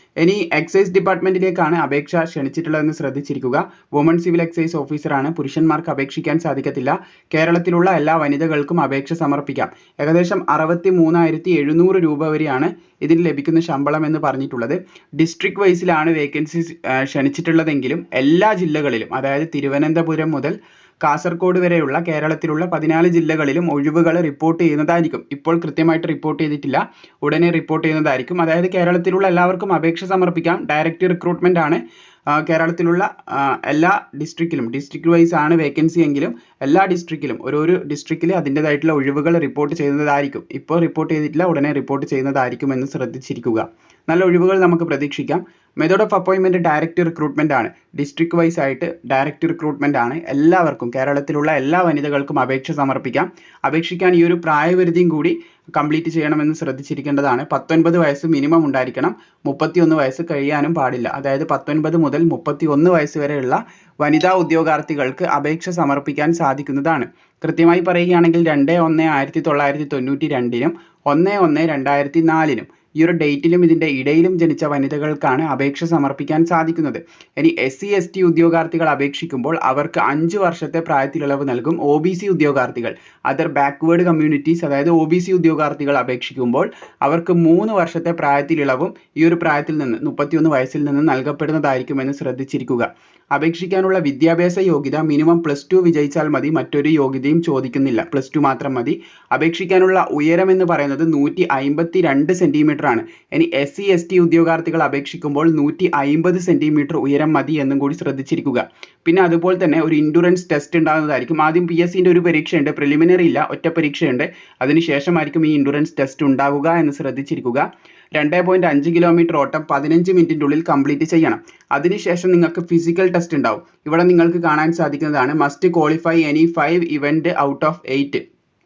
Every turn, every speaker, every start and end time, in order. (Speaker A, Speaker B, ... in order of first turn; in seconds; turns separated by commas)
Speaker A: 0.2-128.2